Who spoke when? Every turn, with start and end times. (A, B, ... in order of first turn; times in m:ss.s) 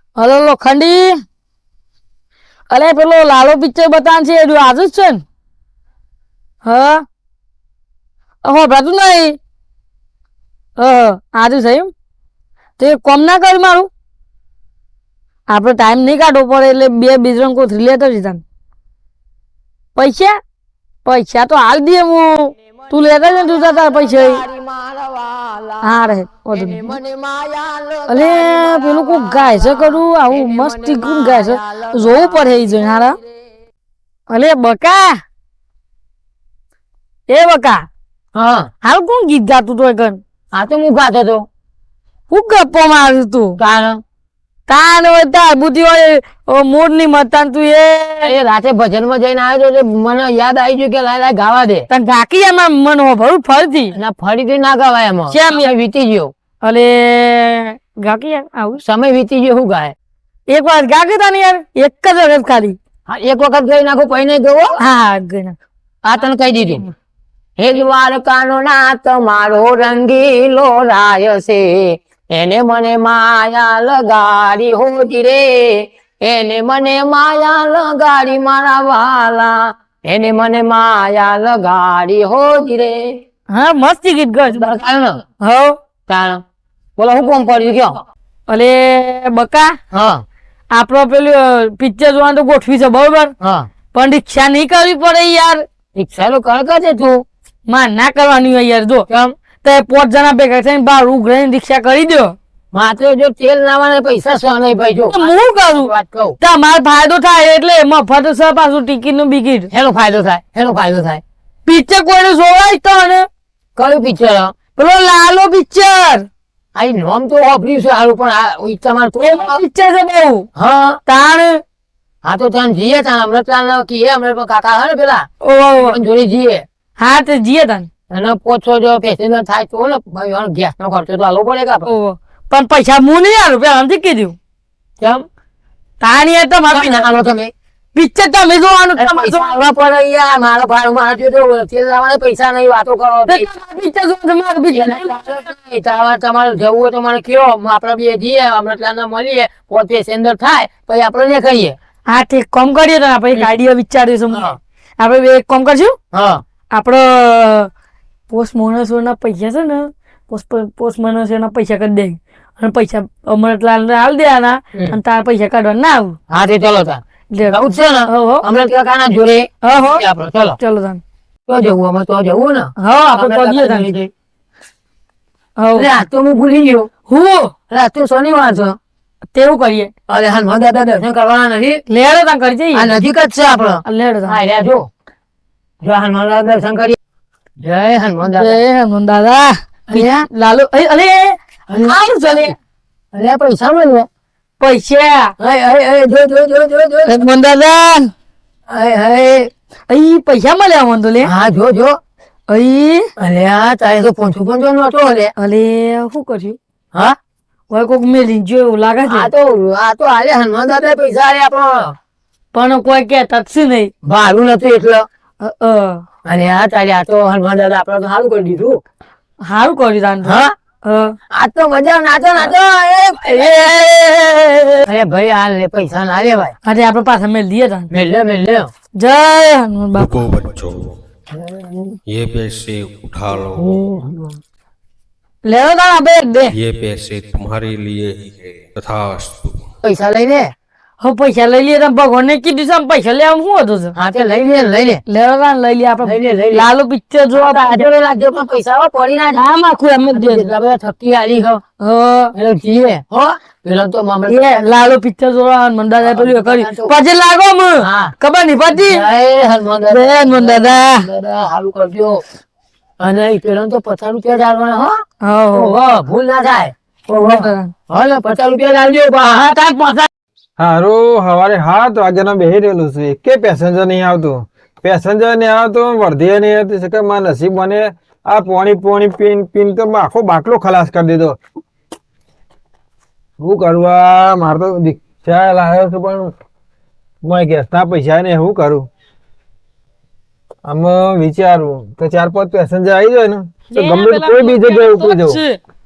0:00.2-0:01.2 A
0:02.7-0:05.2 A
0:06.6-0:07.0 A
0:08.4-0:09.4 A
0:10.8-0:11.9 A
0:12.8-0:13.9 A
0:15.5-0:18.4 A
0:20.0-0:20.3 A
0:21.0-0:24.4 A
0:22.7-0:26.0 B
0:25.8-0:26.9 A
0:26.5-0:33.4 B
0:28.1-0:33.2 A
0:34.3-0:35.2 A
0:37.3-0:37.9 A
0:38.3-0:38.7 B
0:38.8-0:40.2 A
0:40.5-0:41.4 B
0:42.3-0:43.6 A
0:43.6-0:44.0 B
0:44.7-0:48.3 A
0:48.2-0:51.9 B
0:51.9-0:53.9 A
0:53.9-0:56.3 B
0:55.3-0:55.7 A
0:56.6-0:58.8 A
0:58.8-0:59.9 B
1:00.5-1:02.8 A
1:03.1-1:04.7 B
1:04.8-1:05.6 A
1:06.0-1:06.8 B
1:07.6-1:23.0 B
1:23.5-1:24.7 A
1:24.5-1:25.2 B
1:25.4-1:25.8 A
1:26.1-1:26.4 B
1:27.0-1:28.0 B
1:28.5-1:29.7 A
1:29.9-1:30.2 B
1:30.7-1:33.3 A
1:33.4-1:33.7 B
1:33.9-1:35.6 A
1:36.0-1:37.2 B
1:37.7-1:39.0 A
1:39.6-1:42.4 A
1:42.7-1:46.4 B
1:45.1-1:45.9 A
1:46.4-1:49.7 A
1:49.7-1:51.2 B
1:51.6-1:53.3 A
1:53.8-1:54.5 B
1:54.8-1:56.3 A
1:56.8-1:59.6 B
1:59.2-2:00.5 A
2:00.6-2:01.0 B
2:01.1-2:01.6 A
2:02.2-2:05.3 B
2:05.4-2:06.0 A
2:05.8-2:06.6 B
2:07.0-2:07.9 A
2:08.1-2:11.9 B
2:11.9-2:14.4 A
2:15.0-2:15.2 B
2:16.0-2:17.0 A
2:16.7-2:17.5 B
2:17.9-2:19.5 A
2:19.0-2:23.4 B
2:23.3-2:25.1 A
2:24.7-2:31.8 B
2:32.1-2:36.0 A
2:34.3-2:34.6 B
2:36.1-2:36.4 B
2:36.7-2:37.7 A
2:38.3-2:46.2 A
2:46.3-2:50.6 B
2:47.3-2:48.4 A
2:49.6-2:50.0 A
2:50.6-2:51.0 A
2:51.5-2:54.1 B
2:52.8-2:53.9 A
2:55.6-2:55.9 A
2:55.7-2:56.9 B
2:57.1-2:57.5 A
2:57.7-2:58.8 B
2:59.3-2:59.9 A
3:00.1-3:01.8 B
3:01.9-3:02.9 A
3:02.7-3:04.9 B
3:03.8-3:04.4 A
3:05.8-3:07.0 B
3:07.6-3:08.6 B
3:08.3-3:12.5 A
3:09.9-3:10.3 B
3:11.7-3:12.5 B
3:13.1-3:14.1 B
3:14.6-3:15.3 A
3:15.4-3:17.2 B
3:17.1-3:18.1 A
3:18.7-3:19.5 B
3:19.9-3:21.3 A
3:21.2-3:21.9 B
3:22.5-3:23.1 A
3:23.2-3:25.3 B
3:25.4-3:26.6 A
3:27.7-3:29.3 A
3:29.1-3:31.9 B
3:32.5-3:33.9 A
3:34.0-3:35.0 B
3:35.4-3:36.0 A
3:36.2-3:38.8 B
3:39.4-3:41.2 A
3:40.2-3:40.5 B
3:41.3-3:43.8 B
3:43.2-3:44.8 A
3:44.8-3:46.6 B
3:46.6-3:47.9 A
3:47.9-3:48.7 B
3:49.0-3:50.2 A
3:50.0-3:51.0 C
3:51.4-3:52.0 B
3:52.1-3:53.8 C
3:53.6-3:54.4 B
3:55.4-3:56.6 A
3:56.5-3:59.6 C
3:59.8-4:00.5 B
4:01.0-4:03.9 A
4:04.0-4:05.0 B
4:05.1-4:07.8 A
4:06.0-4:06.7 B
4:07.3-4:09.4 B
4:09.4-4:10.5 A
4:10.1-4:11.6 B
4:11.8-4:12.3 A
4:12.3-4:14.6 B
4:14.3-4:19.0 A
4:16.0-4:16.9 B
4:17.8-4:18.1 B
4:18.7-4:22.2 B
4:19.9-4:21.1 A
4:23.0-4:25.0 B
4:25.2-4:25.8 A
4:25.5-4:30.1 B
4:27.2-4:27.7 A
4:30.6-4:41.4 D
4:43.4-4:46.3 D
4:47.2-4:48.9 D
4:50.6-4:55.4 D
4:53.7-4:55.6 A